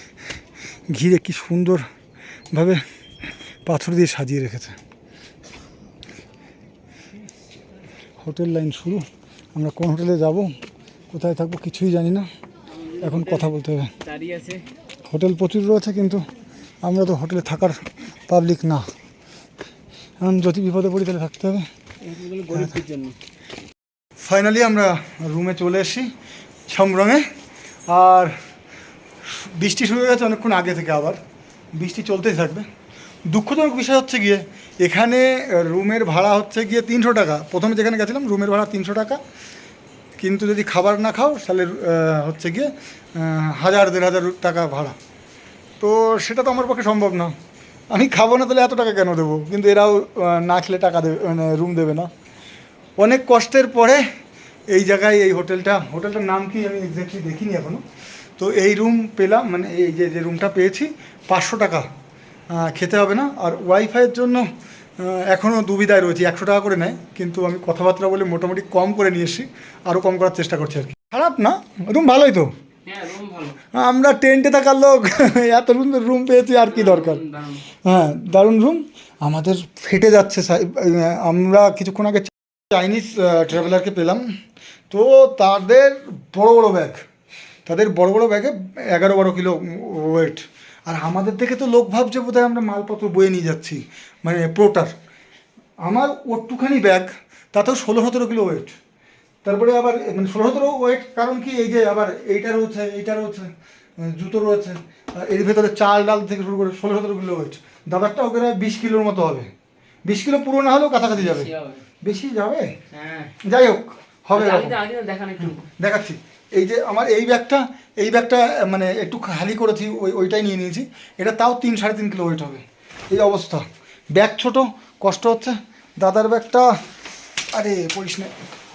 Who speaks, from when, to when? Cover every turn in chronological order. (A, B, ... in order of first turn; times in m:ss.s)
0:00.9-0:01.9 A
0:02.5-0:02.8 A
0:03.6-0:04.8 A
0:08.2-0:10.5 A
0:11.1-0:12.3 A
0:12.9-0:13.5 B
0:13.0-0:13.9 A
0:14.0-0:14.6 B
0:15.1-0:16.2 A
0:16.8-0:18.9 A
0:20.2-0:21.7 A
0:22.0-0:23.2 B
0:24.2-0:26.1 A
0:26.7-0:27.2 A
0:27.9-0:28.4 A
0:29.2-0:31.2 A
0:31.8-0:32.7 A
0:33.3-0:39.2 A
0:40.2-0:45.0 A
0:45.8-0:47.3 A
0:47.9-0:52.1 A
0:53.0-0:54.1 A
0:54.7-0:57.8 A
0:58.4-1:01.9 A
1:02.5-1:12.5 A
1:12.9-1:13.6 B
1:13.7-1:24.2 A
1:16.7-1:17.6 B
1:24.9-1:27.0 A
1:27.6-1:34.9 A
1:35.8-1:38.8 A
1:39.4-1:49.5 A
1:50.0-1:52.8 A
1:51.2-1:51.8 B
1:52.9-1:53.3 B
1:53.4-1:54.8 A
1:54.3-1:55.7 B
1:55.4-2:06.8 A
2:07.5-2:08.3 A